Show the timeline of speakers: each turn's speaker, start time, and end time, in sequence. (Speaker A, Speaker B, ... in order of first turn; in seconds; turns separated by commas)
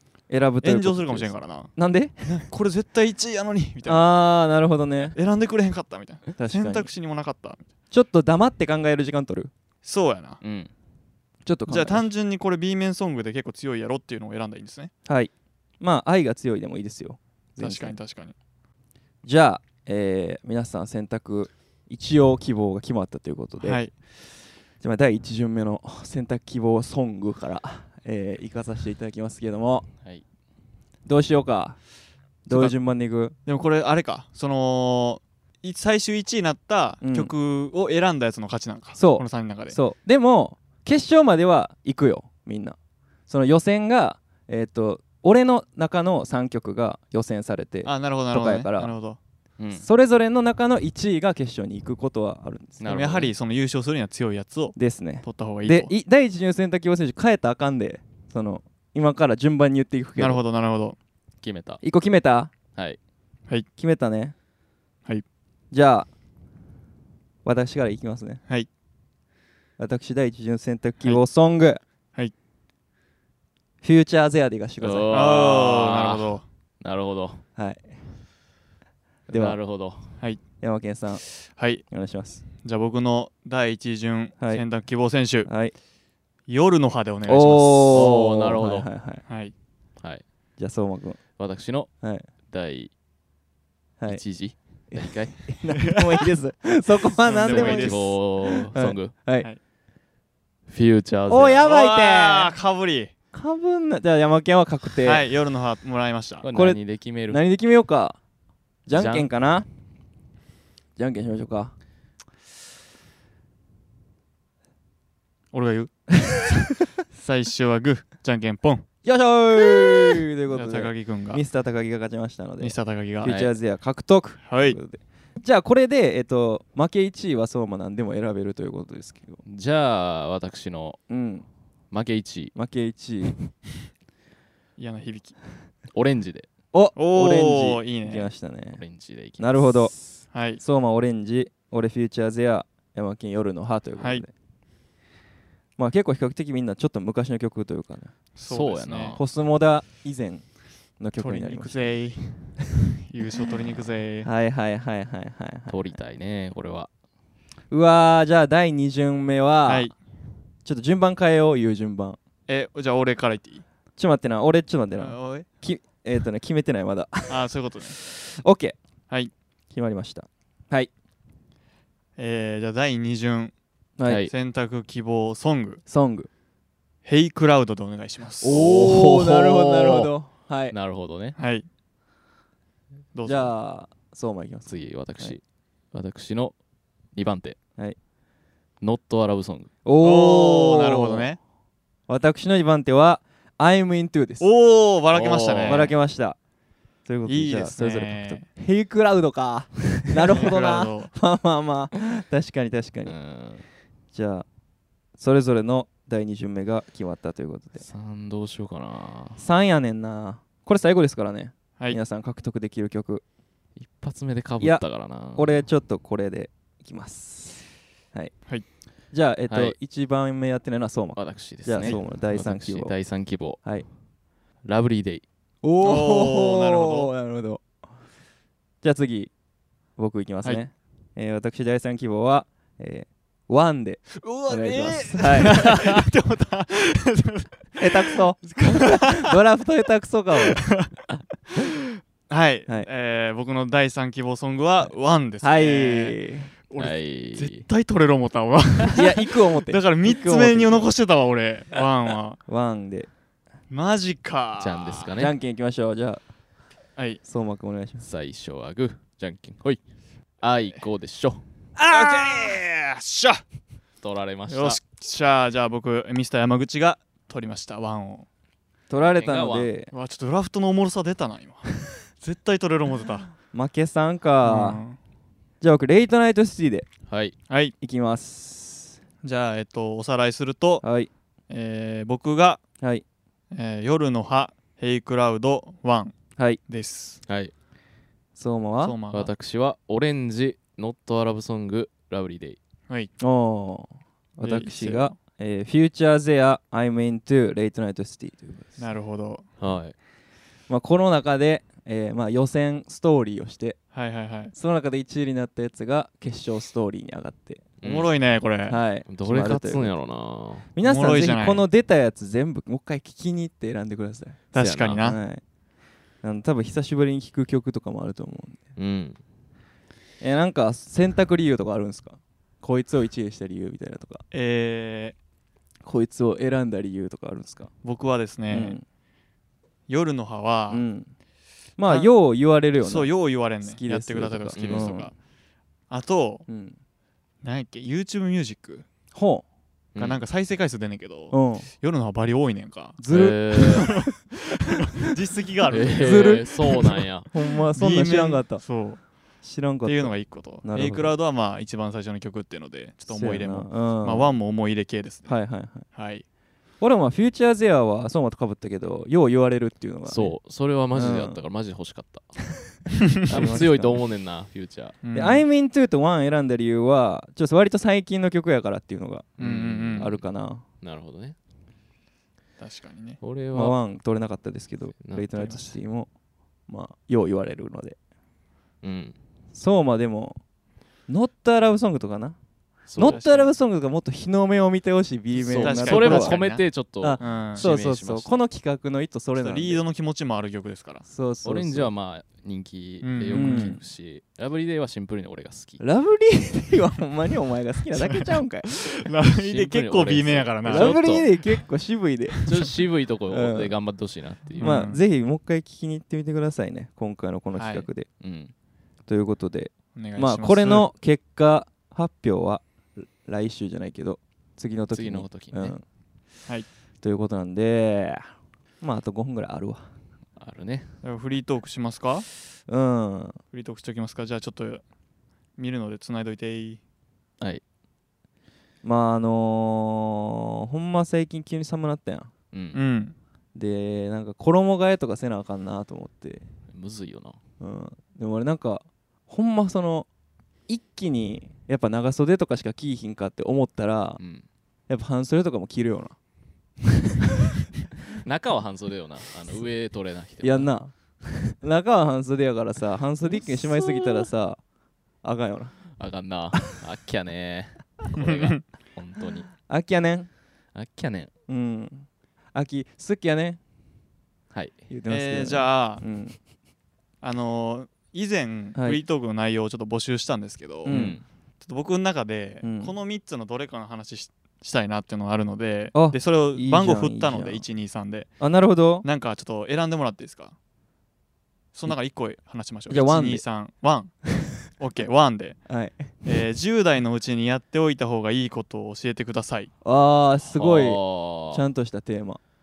Speaker A: 0.3-2.5, Speaker B: 0.6-1.7, Speaker B: 2.3-4.0, Speaker A: 3.8-5.1, Speaker B: 5.1-7.7, Speaker A: 6.4-6.9, Speaker A: 7.9-9.5, Speaker B: 9.8-10.4, Speaker C: 10.4-10.7, Speaker A: 11.4-12.1, Speaker B: 11.7-14.9, Speaker A: 15.0-18.0, Speaker B: 17.6-18.3, Speaker A: 19.2-23.9, Speaker B: 23.6-23.9, Speaker A: 24.8-29.9, Speaker A: 31.1-31.8, Speaker A: 32.4-33.4, Speaker B: 32.5-32.7, Speaker B: 33.4-39.8, Speaker A: 37.0-37.3, Speaker A: 39.0-42.8, Speaker A: 43.3-48.9, Speaker B: 47.8-49.2, Speaker C: 49.6-49.9, Speaker A: 49.8-52.8, Speaker C: 52.8-53.3, Speaker B: 52.8-55.9, Speaker A: 54.8-60.4, Speaker B: 60.2-61.0, Speaker C: 61.4-61.8, Speaker A: 61.8-62.5, Speaker A: 63.8-64.3, Speaker A: 65.7-66.1, Speaker A: 67.4-68.4, Speaker A: 69.8-71.8, Speaker A: 73.8-75.4, Speaker C: 74.8-77.4, Speaker B: 75.1-76.4, Speaker A: 77.6-78.0, Speaker C: 79.3-80.1, Speaker A: 79.3-79.6, Speaker A: 80.6-81.2, Speaker B: 81.4-81.8, Speaker A: 81.9-82.4, Speaker B: 82.6-85.5, Speaker A: 84.4-84.6, Speaker A: 85.4-85.7, Speaker B: 86.5-88.1, Speaker A: 87.2-89.2, Speaker C: 87.9-88.9, Speaker B: 89.3-89.5, Speaker A: 90.6-91.2, Speaker C: 91.4-91.9, Speaker A: 92.0-92.2, Speaker C: 92.5-92.9, Speaker C: 94.1-95.5, Speaker A: 94.9-99.5, Speaker B: 97.2-98.2, Speaker C: 97.4-99.1, Speaker C: 100.7-101.6, Speaker A: 101.3-102.5, Speaker B: 101.6-103.1, Speaker A: 103.3-105.3, Speaker B: 105.0-106.4, Speaker C: 106.4-107.4, Speaker A: 106.5-108.2, Speaker A: 108.8-109.7, Speaker C: 108.9-109.3, Speaker A: 111.0-111.7, Speaker B: 115.5-116.5, Speaker B: 117.1-118.8, Speaker A: 119.0-129.4, Speaker B: 120.5-121.4, Speaker B: 122.6-123.3, Speaker C: 123.2-123.5, Speaker B: 124.5-124.8, Speaker C: 129.4-131.0, Speaker A: 131.1-131.4, Speaker C: 131.9-132.5, Speaker A: 132.5-133.4, Speaker B: 134.8-135.3, Speaker C: 135.9-136.5, Speaker A: 136.7-138.8, Speaker B: 136.9-138.3, Speaker C: 138.8-140.2, Speaker A: 139.4-139.9, Speaker B: 140.3-140.6, Speaker A: 140.6-144.3, Speaker B: 144.0-144.2, Speaker A: 145.8-148.1, Speaker B: 148.3-149.2, Speaker C: 148.5-149.2, Speaker A: 149.1-150.4, Speaker A: 151.0-151.8, Speaker B: 151.2-154.3, Speaker A: 154.2-156.0, Speaker C: 155.7-156.9, Speaker A: 157.7-159.9, Speaker B: 159.7-159.9, Speaker A: 160.6-162.2, Speaker B: 162.5-163.6, Speaker A: 164.0-168.8, Speaker B: 165.0-165.5, Speaker B: 167.3-168.0, Speaker A: 169.7-170.9, Speaker B: 172.2-173.5, Speaker A: 174.0-174.3, Speaker C: 174.1-174.3, Speaker B: 174.3-175.8, Speaker A: 175.9-176.3, Speaker B: 177.0-178.6, Speaker A: 178.4-180.7, Speaker C: 178.4-180.1, Speaker C: 180.7-181.3, Speaker B: 181.3-181.7, Speaker B: 183.1-183.5, Speaker A: 183.2-185.3, Speaker C: 184.7-185.4, Speaker C: 185.9-186.5, Speaker C: 187.1-187.6, Speaker C: 188.8-189.7, Speaker A: 189.8-191.3, Speaker B: 190.0-191.4, Speaker A: 192.1-194.5, Speaker B: 194.4-195.9, Speaker C: 195.1-195.9, Speaker A: 195.7-196.4, Speaker A: 197.0-203.2, Speaker B: 197.2-198.4, Speaker B: 200.2-201.1, Speaker C: 203.0-203.7, Speaker A: 204.1-204.5, Speaker A: 205.2-207.8, Speaker C: 207.8-209.4, Speaker A: 209.4-213.2, Speaker C: 213.8-215.6, Speaker A: 214.6-218.3, Speaker A: 219.1-222.9, Speaker C: 219.5-219.8, Speaker C: 221.2-223.6, Speaker C: 224.6-225.2, Speaker A: 225.6-227.6, Speaker B: 225.8-227.1, Speaker A: 228.8-229.3, Speaker A: 230.0-235.9, Speaker B: 234.1-239.3, Speaker A: 237.8-240.6, Speaker B: 240.6-240.9, Speaker B: 242.3-252.4, Speaker A: 245.4-246.5, Speaker C: 246.8-247.7, Speaker A: 248.9-250.9, Speaker A: 252.5-253.1, Speaker B: 253.7-255.1, Speaker C: 254.6-255.3, Speaker A: 255.1-256.2, Speaker B: 256.9-257.2, Speaker A: 257.2-258.0, Speaker C: 258.0-259.8, Speaker C: 260.4-261.4, Speaker A: 261.8-262.6, Speaker B: 261.9-263.4, Speaker C: 264.0-264.8, Speaker B: 264.5-268.3, Speaker A: 268.9-269.9, Speaker C: 269.0-269.7, Speaker B: 269.9-273.3, Speaker A: 273.5-274.8, Speaker B: 274.4-275.0, Speaker A: 275.6-276.9, Speaker C: 277.1-277.4, Speaker B: 277.5-277.7, Speaker A: 277.8-279.0, Speaker B: 279.2-280.8, Speaker A: 280.8-281.1, Speaker B: 281.5-282.6, Speaker B: 283.5-286.1, Speaker B: 286.7-287.2, Speaker C: 287.3-287.5, Speaker A: 288.4-289.0, Speaker B: 288.8-289.3, Speaker C: 289.1-292.6, Speaker A: 293.2-298.8, Speaker B: 294.4-295.1, Speaker B: 298.8-299.4, Speaker C: 299.6-299.9, Speaker A: 300.7-303.8, Speaker B: 303.9-304.5, Speaker A: 304.5-307.7, Speaker C: 307.8-308.1, Speaker B: 307.8-308.8, Speaker A: 308.7-309.9, Speaker C: 309.1-310.7, Speaker A: 310.7-314.4, Speaker B: 310.8-311.6, Speaker B: 314.5-315.2, Speaker C: 314.5-315.0, Speaker A: 315.0-315.4, Speaker A: 316.2-318.7, Speaker C: 318.8-319.2, Speaker A: 320.2-324.2, Speaker B: 324.3-325.1, Speaker A: 325.8-327.7, Speaker B: 327.8-328.8, Speaker A: 328.5-328.8, Speaker B: 329.9-330.8, Speaker A: 330.7-331.1, Speaker A: 331.8-335.1, Speaker B: 331.9-332.1, Speaker B: 332.8-335.1, Speaker C: 334.6-334.9, Speaker B: 335.9-336.5, Speaker A: 336.5-336.8, Speaker B: 337.4-338.9, Speaker A: 339.1-339.4, Speaker C: 339.9-340.2, Speaker B: 340.0-343.0, Speaker A: 341.3-341.7, Speaker A: 343.0-343.9, Speaker C: 343.1-343.9, Speaker B: 343.5-347.0, Speaker C: 345.7-347.3, Speaker A: 345.9-348.6, Speaker B: 347.8-349.0, Speaker A: 349.4-351.1, Speaker B: 349.8-355.4, Speaker A: 353.1-354.3, Speaker A: 355.2-355.9, Speaker B: 355.9-356.2, Speaker A: 356.8-360.4, Speaker C: 360.1-362.7, Speaker A: 360.9-361.4, Speaker A: 363.2-364.0, Speaker C: 363.2-365.0, Speaker B: 365.0-365.4, Speaker A: 365.1-369.4, Speaker C: 369.4-370.2, Speaker B: 369.4-370.1, Speaker A: 369.9-370.6, Speaker C: 370.8-371.4, Speaker B: 372.6-373.2, Speaker C: 373.2-373.8, Speaker A: 373.5-376.1, Speaker C: 375.0-375.3, Speaker B: 375.3-375.7, Speaker A: 376.7-378.0, Speaker C: 378.8-379.1, Speaker A: 379.5-380.4, Speaker A: 381.1-382.4, Speaker C: 382.9-383.2, Speaker A: 382.9-386.4, Speaker B: 383.1-383.5, Speaker B: 385.4-386.7, Speaker C: 385.4-388.4, Speaker A: 387.0-389.8, Speaker B: 387.2-387.6, Speaker B: 389.3-391.0, Speaker A: 391.0-391.9, Speaker C: 391.4-395.8, Speaker B: 393.0-393.7, Speaker A: 393.3-393.8, Speaker A: 395.8-398.8, Speaker B: 397.9-401.6, Speaker C: 399.3-401.3, Speaker A: 400.7-402.5, Speaker B: 402.3-402.7, Speaker C: 402.4-404.8, Speaker A: 403.3-403.8, Speaker B: 404.6-405.0, Speaker A: 404.6-408.1, Speaker B: 407.5-407.9, Speaker C: 408.2-408.5, Speaker A: 409.1-415.8, Speaker B: 409.9-410.9, Speaker C: 414.9-415.8, Speaker A: 417.0-418.3, Speaker A: 418.8-419.9, Speaker C: 420.4-420.9, Speaker B: 421.0-422.2, Speaker A: 422.7-423.4, Speaker B: 423.5-424.8, Speaker B: 425.6-426.8, Speaker A: 428.8-432.3, Speaker C: 432.5-432.8, Speaker B: 432.7-433.1, Speaker A: 433.5-436.4, Speaker C: 436.7-437.4, Speaker A: 437.6-440.1, Speaker A: 440.7-444.2, Speaker C: 444.2-444.4, Speaker A: 444.9-446.1, Speaker A: 446.8-447.5, Speaker C: 448.1-450.7, Speaker A: 450.4-454.6, Speaker C: 453.3-454.3, Speaker A: 455.2-455.7, Speaker C: 456.0-459.5, Speaker B: 458.1-458.6, Speaker A: 459.6-460.3, Speaker C: 460.7-461.3, Speaker A: 461.5-463.6, Speaker C: 464.5-464.8, Speaker A: 464.9-466.4, Speaker B: 465.1-466.0, Speaker B: 467.2-471.0, Speaker A: 468.7-469.0, Speaker A: 470.8-471.2, Speaker C: 470.9-471.2, Speaker B: 471.6-478.3, Speaker A: 472.6-472.9, Speaker A: 475.9-477.6, Speaker A: 478.4-479.1, Speaker B: 479.0-480.5, Speaker B: 481.7-485.6, Speaker A: 482.9-483.4, Speaker A: 485.6-486.1, Speaker B: 486.2-489.7, Speaker A: 489.8-492.4, Speaker C: 490.5-491.6